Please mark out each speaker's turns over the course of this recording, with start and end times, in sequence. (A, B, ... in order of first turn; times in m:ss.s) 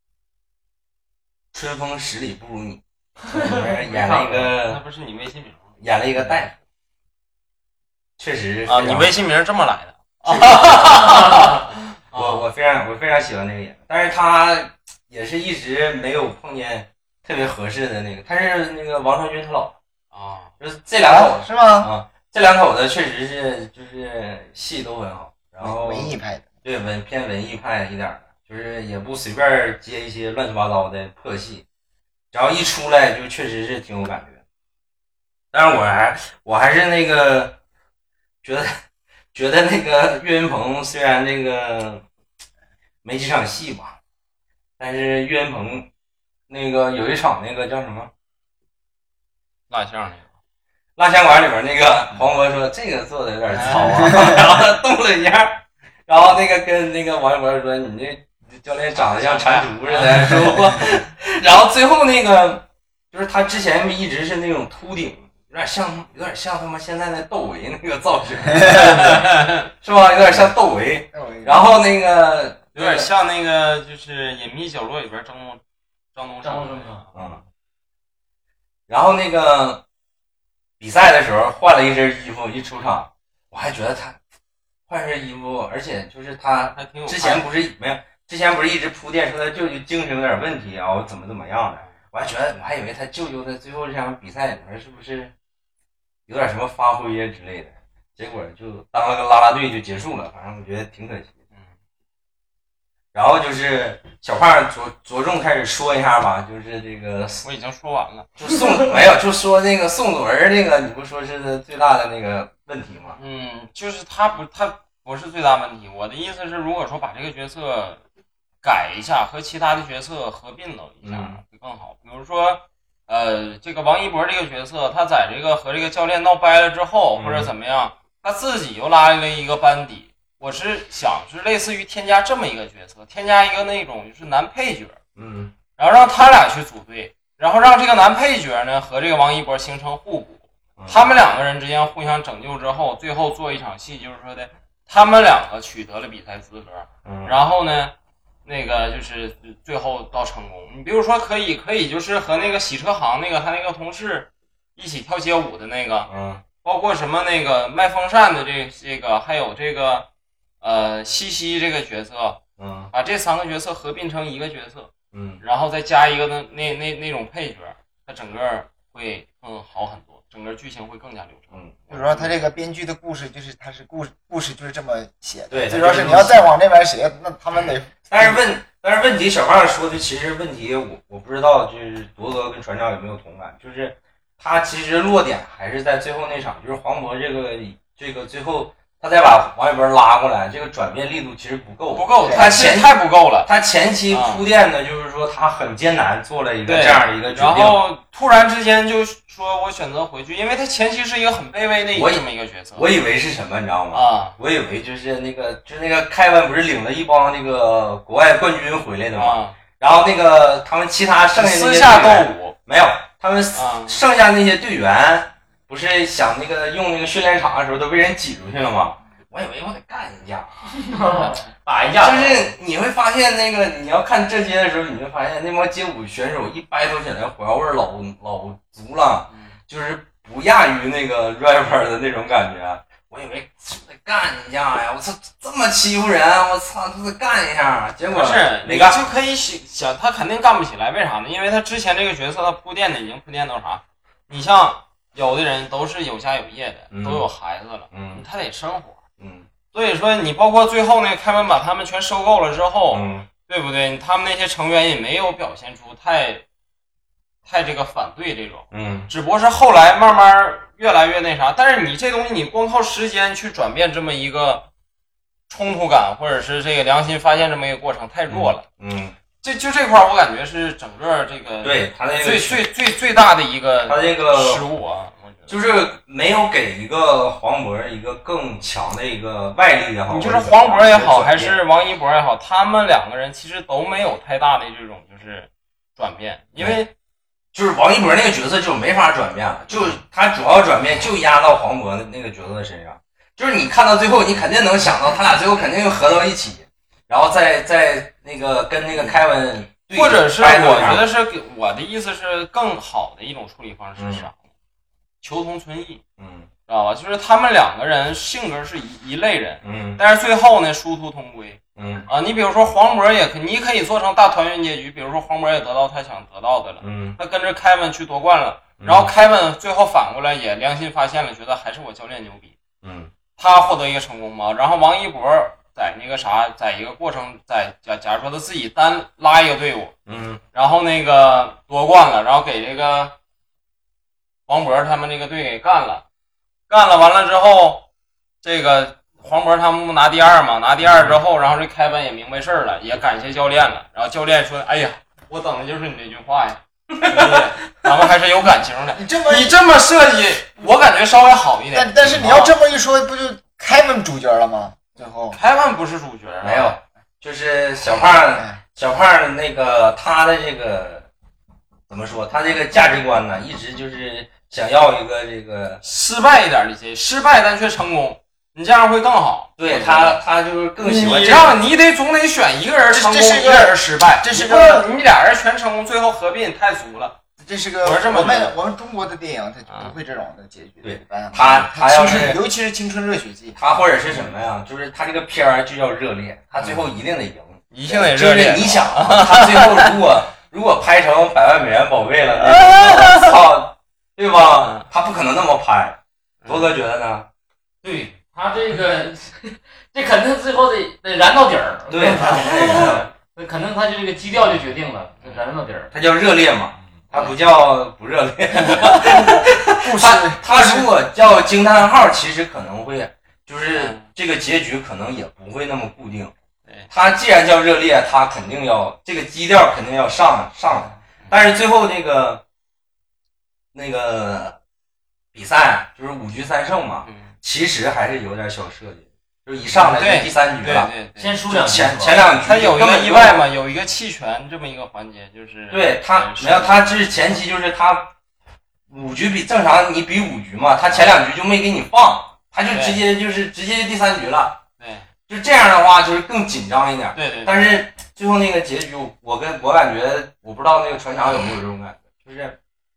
0:01.5-0:04.8 A
0:03.3-0:06.3 B
0:05.8-0:06.5 A
0:08.2-0:09.1 A
0:08.7-0:12.4 B
0:10.2-0:11.4 A
0:12.1-0:19.8 A
0:20.1-0:20.5 B
0:20.6-0:31.6 A
0:21.0-0:21.9 C
0:25.6-0:26.5 C
0:32.3-0:34.4 A
0:35.5-0:37.6 A
0:38.4-0:38.7 A
0:39.3-0:42.0 A
0:43.0-0:44.0 A
0:44.8-0:45.9 A
0:46.5-0:48.1 A
0:49.7-0:50.3 B
0:51.0-1:13.1 A
0:53.5-0:54.0 B
0:58.9-1:00.6 B
1:08.5-1:09.0 C
1:08.6-1:09.7 B
1:11.1-1:11.7 C
1:12.7-1:15.6 B
1:16.1-1:17.2 B
1:16.4-1:17.0 D
1:17.1-1:17.4 A
1:18.9-1:19.8 A
1:20.8-1:24.2 A
1:24.9-1:35.3 A
1:26.7-1:27.4 B
1:36.3-1:41.3 A
1:43.1-1:47.4 A
1:47.4-1:48.4 B
1:48.4-1:53.2 A
1:53.2-1:58.0 B
1:58.6-2:15.0 B
2:01.0-2:01.4 A
2:07.1-2:07.5 A
2:15.2-2:15.5 A
2:15.8-2:40.1 B
2:20.8-2:21.1 A
2:27.0-2:27.4 A
2:36.1-2:36.4 A
2:40.6-2:42.4 B
2:42.6-2:42.9 A
2:42.9-2:52.3 B
2:45.1-2:45.4 A
2:51.9-2:58.4 C
2:55.5-2:56.5 A
2:58.1-3:17.8 A
3:11.9-3:13.5 B
3:12.2-3:12.6 C
3:14.1-3:14.4 B
3:16.6-3:22.9 B
3:21.9-3:40.7 A
3:23.9-3:24.4 B
3:29.1-3:29.6 B
3:31.3-3:32.6 B
3:33.5-3:34.0 B
3:40.7-3:42.5 D
3:42.0-3:59.0 A
3:49.3-3:49.5 B
3:58.1-4:09.0 B
4:06.9-4:07.3 A
4:07.9-4:08.2 A
4:09.2-4:09.5 A
4:09.7-4:16.4 B
4:12.9-4:13.3 A
4:17.4-4:24.7 B
4:18.7-4:19.1 A
4:25.5-4:28.6 B
4:28.3-4:29.2 A
4:29.4-4:35.5 B
4:31.6-4:32.6 A
4:33.8-4:34.6 A
4:35.5-4:41.6 A
4:40.1-4:46.9 B
4:47.5-5:01.1 A
4:59.9-5:04.4 B
5:04.0-5:04.3 A
5:05.2-5:06.0 B
5:06.2-5:06.5 A
5:06.7-5:22.5 B
5:09.6-5:10.0 A
5:11.8-5:12.1 A
5:16.8-5:17.2 A
5:18.8-5:19.1 A
5:22.8-5:23.1 A
5:23.4-5:29.9 B
5:30.0-5:30.4 A
5:30.5-5:33.2 B
5:34.5-5:36.0 B
5:36.7-5:37.9 B
5:38.4-5:52.5 B
5:40.8-5:41.2 A
5:47.0-5:47.4 A
5:48.9-5:49.6 C
5:51.7-5:55.4 C
5:55.3-5:56.7 B
5:56.4-6:01.1 A
6:01.9-6:05.8 A
6:05.8-6:10.2 B
6:09.6-6:11.6 A
6:10.8-6:17.2 B
6:12.9-6:14.9 C
6:17.4-6:23.6 C
6:17.8-6:18.5 B
6:20.8-6:22.4 A
6:23.6-6:37.3 A
6:27.7-6:29.9 B
6:32.5-6:33.3 B
6:34.4-6:34.8 B
6:36.4-6:36.7 B
6:37.8-6:45.9 D
6:41.9-6:43.1 A
6:42.6-6:43.0 B
6:45.9-6:56.3 A
6:48.8-6:50.9 C
6:53.7-6:54.1 B
6:56.9-7:02.4 A
7:03.7-7:04.6 A
7:05.3-7:10.9 A
7:07.0-7:07.3 B
7:09.7-7:11.4 B
7:11.2-7:12.2 D
7:11.5-7:13.4 A
7:12.4-7:16.9 B
7:15.7-7:18.1 A
7:18.9-7:24.6 A
7:20.8-7:21.2 B
7:22.7-7:23.0 B
7:24.8-7:25.1 B
7:25.3-7:32.6 A
7:27.1-7:27.7 B